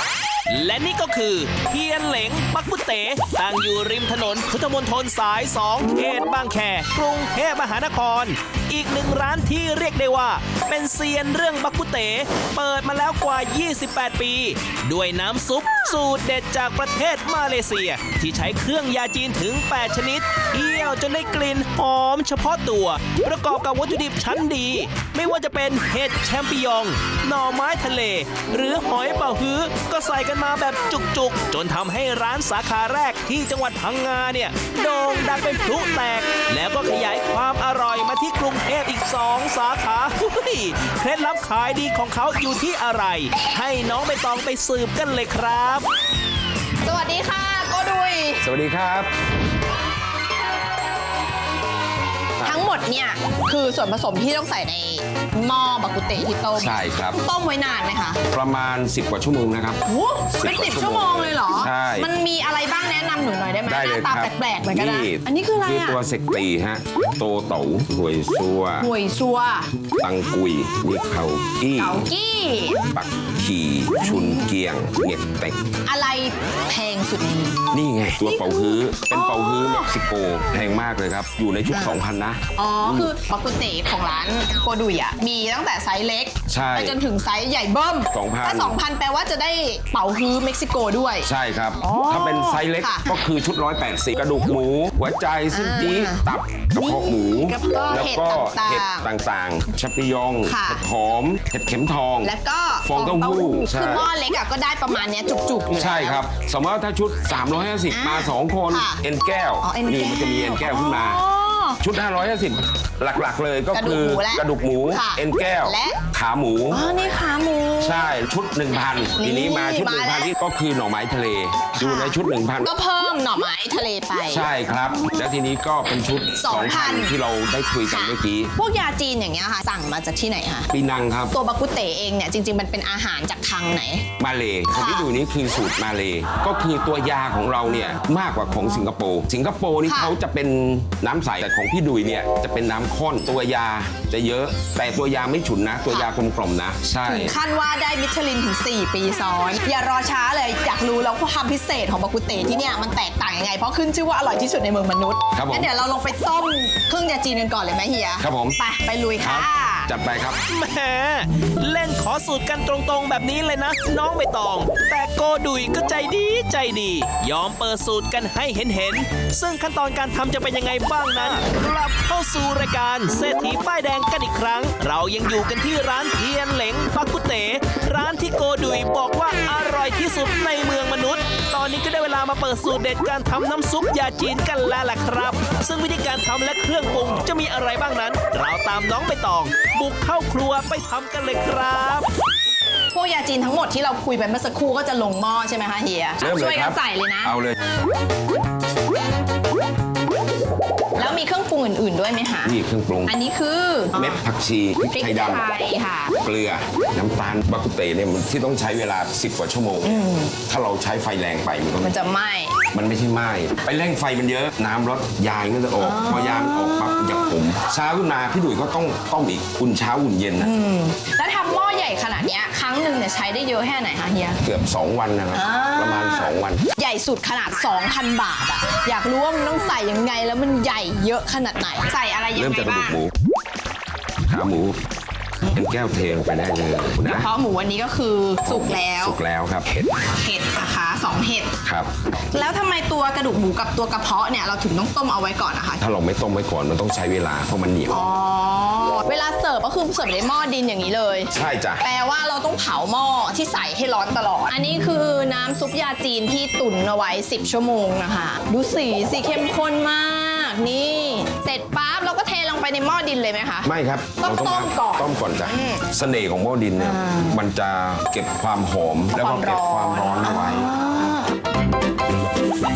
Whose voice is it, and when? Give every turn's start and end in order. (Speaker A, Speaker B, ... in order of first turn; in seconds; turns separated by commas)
Speaker A: 0.5-45.9, Speaker B: 46.8-48.4, Speaker C: 48.4-49.1, Speaker B: 52.4-58.2, Speaker C: 56.5-57.2, Speaker C: 58.3-59.8, Speaker B: 59.8-66.0, Speaker C: 60.3-62.1, Speaker C: 63.7-68.9, Speaker B: 68.8-69.7, Speaker C: 70.0-72.1, Speaker B: 71.8-72.8, Speaker C: 72.9-75.6, Speaker B: 74.0-74.5, Speaker B: 75.8-77.6, Speaker C: 77.7-83.1, Speaker B: 78.2-79.9, Speaker B: 81.7-82.0, Speaker B: 82.5-91.3, Speaker C: 86.5-87.0, Speaker C: 88.1-88.8, Speaker C: 91.2-104.1, Speaker B: 91.8-93.2, Speaker B: 95.5-99.1, Speaker B: 100.5-100.8, Speaker B: 102.2-106.2, Speaker C: 105.7-111.2, Speaker B: 107.9-109.0, Speaker B: 109.6-111.8, Speaker C: 111.8-116.9, Speaker B: 113.7-116.0, Speaker B: 116.7-118.1, Speaker C: 117.8-122.7, Speaker B: 119.2-120.3, Speaker B: 121.7-124.5, Speaker C: 124.3-128.5, Speaker B: 125.0-125.3, Speaker B: 126.4-127.1, Speaker B: 127.9-130.7, Speaker C: 130.7-131.3, Speaker B: 131.3-134.1, Speaker C: 134.2-147.3, Speaker B: 134.7-135.1, Speaker B: 139.9-140.1, Speaker B: 147.0-159.9, Speaker C: 155.3-155.7, Speaker C: 158.2-158.6, Speaker C: 159.2-160.4, Speaker A: 160.5-192.1, Speaker B: 192.9-197.3, Speaker C: 196.2-197.6, Speaker B: 200.9-204.2, Speaker C: 202.4-203.2, Speaker C: 203.9-205.4, Speaker B: 204.9-206.2, Speaker C: 206.2-211.9, Speaker B: 209.8-210.3, Speaker B: 211.8-212.6, Speaker C: 212.7-220.5, Speaker B: 215.8-217.3, Speaker B: 220.4-224.4, Speaker C: 224.4-226.6, Speaker B: 225.3-233.0, Speaker C: 232.4-233.1, Speaker C: 234.2-234.8, Speaker C: 235.5-237.3, Speaker B: 237.0-239.2, Speaker C: 238.5-239.8, Speaker B: 240.0-241.5, Speaker C: 241.6-242.5, Speaker B: 242.3-245.8, Speaker C: 245.8-248.1, Speaker B: 247.9-263.7, Speaker C: 251.3-251.8, Speaker C: 263.6-270.8, Speaker B: 264.2-265.8, Speaker B: 266.8-267.4, Speaker B: 269.1-271.3